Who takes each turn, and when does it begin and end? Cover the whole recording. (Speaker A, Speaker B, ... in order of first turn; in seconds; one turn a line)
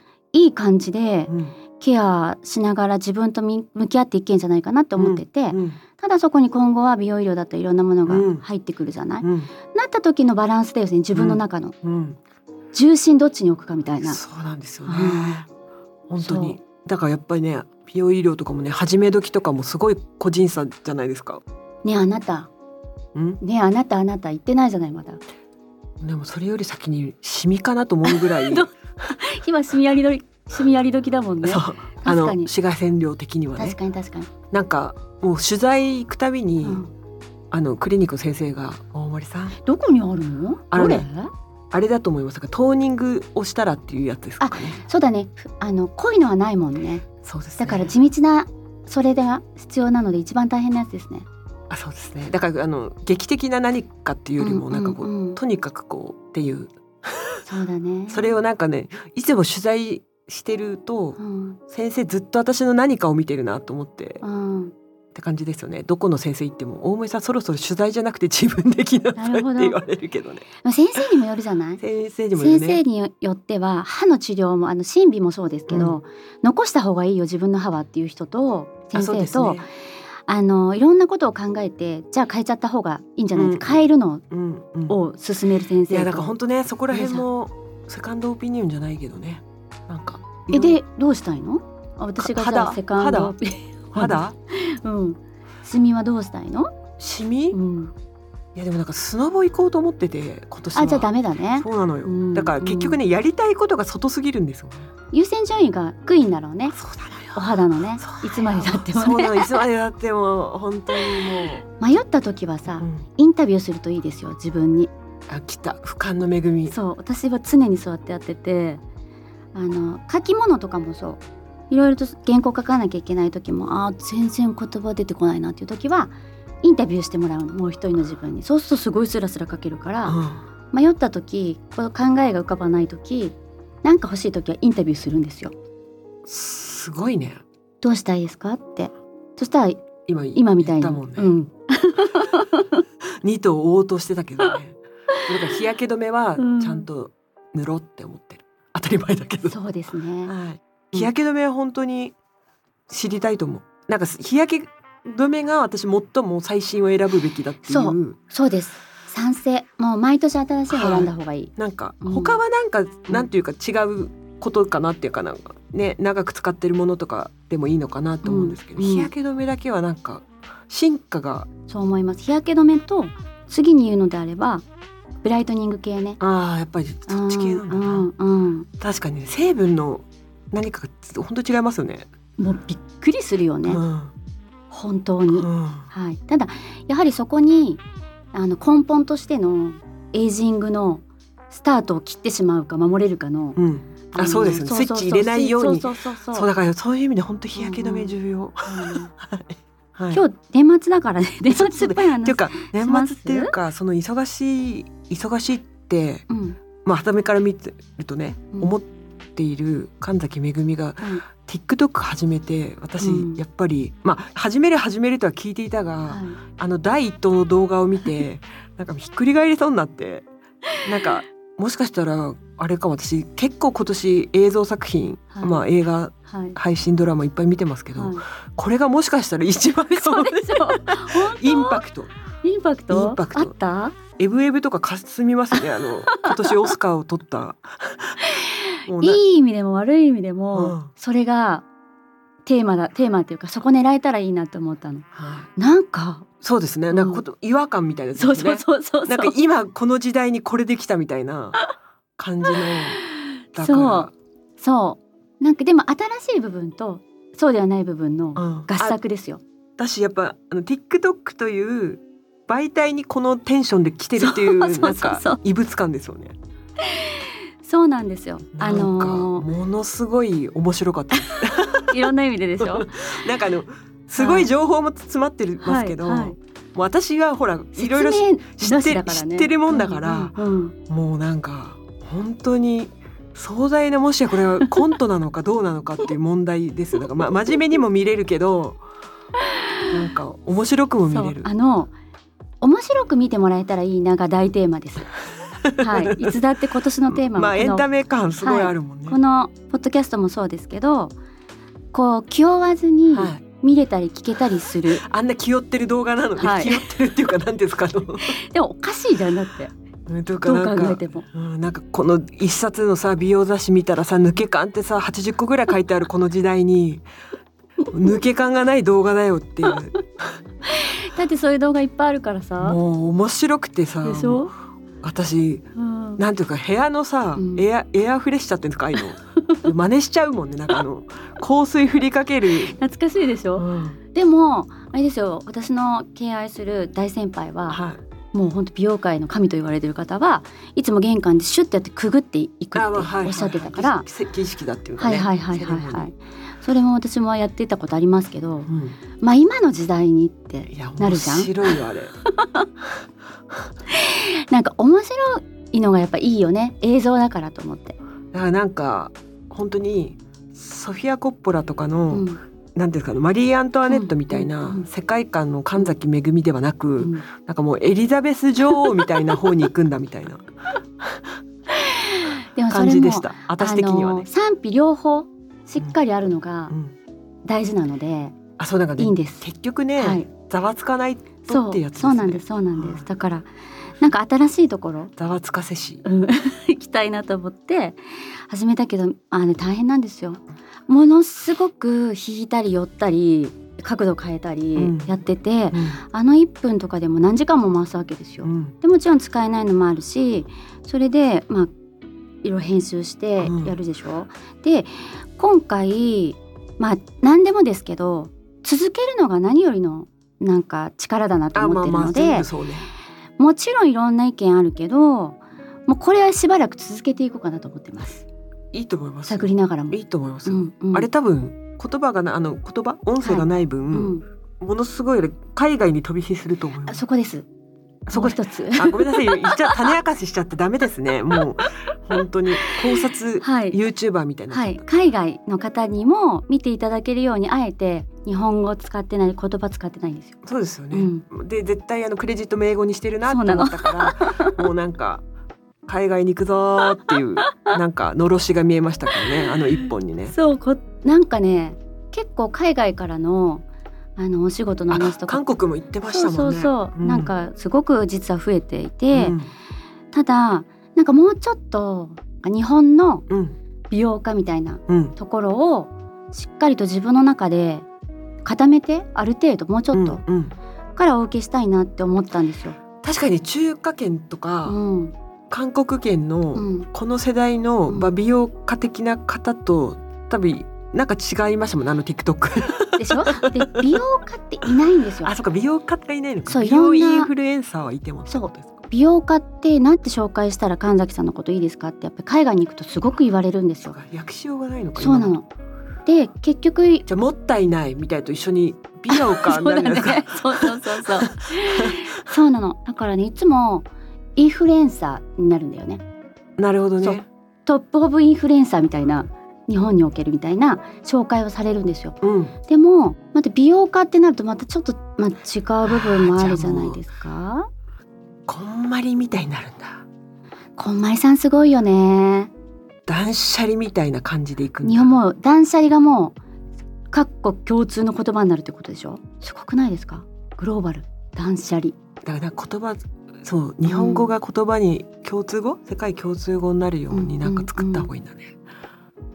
Speaker A: 0.3-11.7
Speaker B: 1.3-1.5
Speaker B: 5.0-5.8
Speaker B: 8.1-8.4
Speaker B: 9.2-9.5
Speaker B: 11.1-12.2
Speaker A: 12.7-14.2
Speaker B: 14.0-15.5
Speaker A: 14.8-15.4
Speaker B: 16.1-21.4
Speaker A: 16.2-16.6
Speaker A: 21.8-22.5
Speaker B: 23.1-23.4
Speaker A: 23.4-25.2
Speaker B: 26.0-28.7
Speaker A: 28.0-32.5
Speaker B: 31.4-33.8
Speaker A: 33.5-34.3
Speaker B: 34.5-36.8
Speaker A: 36.6-36.9
Speaker B: 37.5-39.6
Speaker A: 39.6-41.3
Speaker B: 40.7-41.1
Speaker B: 41.7-44.8
Speaker A: 44.4-47.0
Speaker B: 47.2-47.9
Speaker A: 47.6-51.3
Speaker B: 51.7-57.4
Speaker A: 54.4-55.4
Speaker A: 57.5-58.3
Speaker B: 58.1-64.2
Speaker A: 61.2-61.6
Speaker A: 64.2-64.7
Speaker B: 65.1-70.5
Speaker A: 69.2-69.8
Speaker A: 70.6-71.8
Speaker B: 71.8-72.8
Speaker A: 72.4-79.7
Speaker B: 75.7-76.0
Speaker B: 78.9-79.7
Speaker A: 80.3-84.2
Speaker B: 83.3-85.0
Speaker A: 84.9-86.3
Speaker B: 85.9-90.8
Speaker A: 86.9-87.2
Speaker A: 90.5-96.7
Speaker B: 92.2-93.3
Speaker B: 93.9-94.3
Speaker B: 97.0-97.6
Speaker A: 97.5-97.9
Speaker B: 98.5-104.9
Speaker A: 100.7-103.0
Speaker A: 105.1-106.8
Speaker B: 106.7-111.6
Speaker A: 107.3-109.6
Speaker A: 111.8-114.9
Speaker B: 112.8-113.0
Speaker B: 115.3-116.7
Speaker A: 116.7-118.8
Speaker A: 119.5-130.2
Speaker B: 130.1-130.4
Speaker A: 130.7-135.5
Speaker B: 136.2-137.4
Speaker A: 137.8-139.8
Speaker B: 140.1-141.3
Speaker A: 140.3-142.8
Speaker B: 143.2-149.6
Speaker A: 146.4-146.8
Speaker A: 149.5-150.3
Speaker B: 150.2-152.1
Speaker B: 152.9-158.2
Speaker A: 157.7-162.4
Speaker B: 160.7-171.5
Speaker A: 168.2-169.1
Speaker A: 171.7-174.6
Speaker A: 175.2-176.2
Speaker B: 176.2-178.1
Speaker A: 177.1-178.7
Speaker B: 178.8-182.1
Speaker A: 182.4-183.8
Speaker B: 183.7-184.1
Speaker A: 184.7-187.8
Speaker B: 185.3-185.9
Speaker A: 188.3-193.6
Speaker B: 193.6-200.2
Speaker A: 194.1-196.5
Speaker A: 197.6-198.1
Speaker A: 198.6-199.1
Speaker A: 200.1-203.5
Speaker B: 201.5-206.2
Speaker A: 206.3-206.6
Speaker B: 206.8-220.3
Speaker A: 213.0-213.4
Speaker A: 216.1-216.4
Speaker B: 220.8-232.1
Speaker A: 225.3-225.7
Speaker A: 226.3-226.6
Speaker A: 227.9-228.2
Speaker A: 229.9-231.8
Speaker A: 232.4-234.0
Speaker B: 232.9-233.5
Speaker B: 234.1-238.2
Speaker A: 235.5-236.7
Speaker A: 238.2-241.6
Speaker B: 238.8-239.2
Speaker B: 240.5-240.9
Speaker A: 242.4-246.3
Speaker B: 245.1-245.5
Speaker B: 246.4-251.7
Speaker A: 246.9-247.2
Speaker A: 248.2-249.3
Speaker B: 252.2-253.0
Speaker A: 252.6-259.4
Speaker B: 253.5-254.1
Speaker B: 258.4-259.0
Speaker B: 259.8-266.4
Speaker A: 264.2-265.4
Speaker A: 266.8-269.5
Speaker B: 268.5-280.3
Speaker A: 271.1-273.1
Speaker A: 274.2-274.5
Speaker A: 275.6-276.4
Speaker A: 277.8-280.8
Speaker B: 280.9-288.8
Speaker B: 289.9-291.5
Speaker A: 291.1-291.9
Speaker A: 292.6-295.1
Speaker B: 295.6-296.4
Speaker A: 295.8-297.8
Speaker B: 297.1-299.2
Speaker A: 298.4-301.1
Speaker A: 301.9-305.0
Speaker B: 303.1-303.4
Speaker B: 304.9-308.4
Speaker A: 306.4-306.9
Speaker A: 308.3-309.7
Speaker B: 310.1-317.0
Speaker A: 310.4-311.2
Speaker B: 317.9-320.3
Speaker A: 320.6-322.8
Speaker B: 322.6-324.5
Speaker A: 324.0-324.5
Speaker B: 325.0-332.8
Speaker A: 325.8-326.2
Speaker A: 327.4-327.7
Speaker A: 329.4-329.7
Speaker A: 332.7-337.8
Speaker B: 333.6-334.0
Speaker B: 337.7-338.0
Speaker A: 338.3-344.1
Speaker B: 342.7-346.1
Speaker A: 345.0-352.7
Speaker B: 348.7-349.0
Speaker B: 350.7-352.1
Speaker A: 353.9-358.0
Speaker B: 358.3-370.5
Speaker A: 362.1-362.4
Speaker A: 363.9-364.9
Speaker A: 367.0-367.2
Speaker B: 371.0-371.3
Speaker A: 371.7-376.7
Speaker B: 372.7-374.3
Speaker A: 377.4-378.4
Speaker B: 378.6-383.0
Speaker A: 379.0-379.4
Speaker A: 380.0-380.3
Speaker A: 381.5-383.5
Speaker A: 384.0-385.1
Speaker B: 385.2-386.0
Speaker A: 386.0-401.7
Speaker B: 394.8-395.1
Speaker B: 395.7-396.0
Speaker B: 398.4-398.7
Speaker A: 402.4-412.5
Speaker B: 403.4-403.8
Speaker B: 411.5-412.9
Speaker A: 413.4-418.2
Speaker B: 418.7-427.0
Speaker A: 419.3-421.1
Speaker A: 423.2-424.2
Speaker A: 426.9-427.4
Speaker B: 428.1-434.8
Speaker A: 428.1-429.9
Speaker A: 432.5-433.8
Speaker A: 434.5-440.4
Speaker B: 440.4-445.2
Speaker A: 440.9-441.2
Speaker A: 443.2-444.6
Speaker B: 445.9-450.3
Speaker A: 447.1-447.8
Speaker A: 449.1-449.6
Speaker A: 450.3-453.6
Speaker A: 454.2-455.4
Speaker B: 454.9-457.3
Speaker A: 456.1-459.4
Speaker B: 459.1-459.5
Speaker A: 460.1-463.2
Speaker B: 463.3-463.6
Speaker A: 463.9-467.9
Speaker B: 464.9-465.1
Speaker A: 468.4-470.2
Speaker B: 469.9-470.5
Speaker A: 470.9-472.8
Speaker B: 473.0-474.8
Speaker A: 474.6-475.1
Speaker B: 475.5-483.7
Speaker A: 476.5-476.9
Speaker A: 482.9-485.3
Speaker B: 485.2-488.7
Speaker A: 486.5-487.3
Speaker A: 488.3-494.0
Speaker B: 493.9-495.4
Speaker A: 495.0-495.5
Speaker A: 496.1-497.0
Speaker B: 497.1-502.1
Speaker A: 499.1-506.0
Speaker B: 506.6-507.2
Speaker A: 507.0-517.7
Speaker B: 512.2-512.5
Speaker B: 515.8-517.0
Speaker B: 518.5-520.0
Speaker A: 520.8-522.5
Speaker B: 523.1-525.1
Speaker A: 524.8-526.4
Speaker A: 527.1-532.0
Speaker B: 532.2-538.5
Speaker A: 533.9-534.3
Speaker A: 537.1-538.1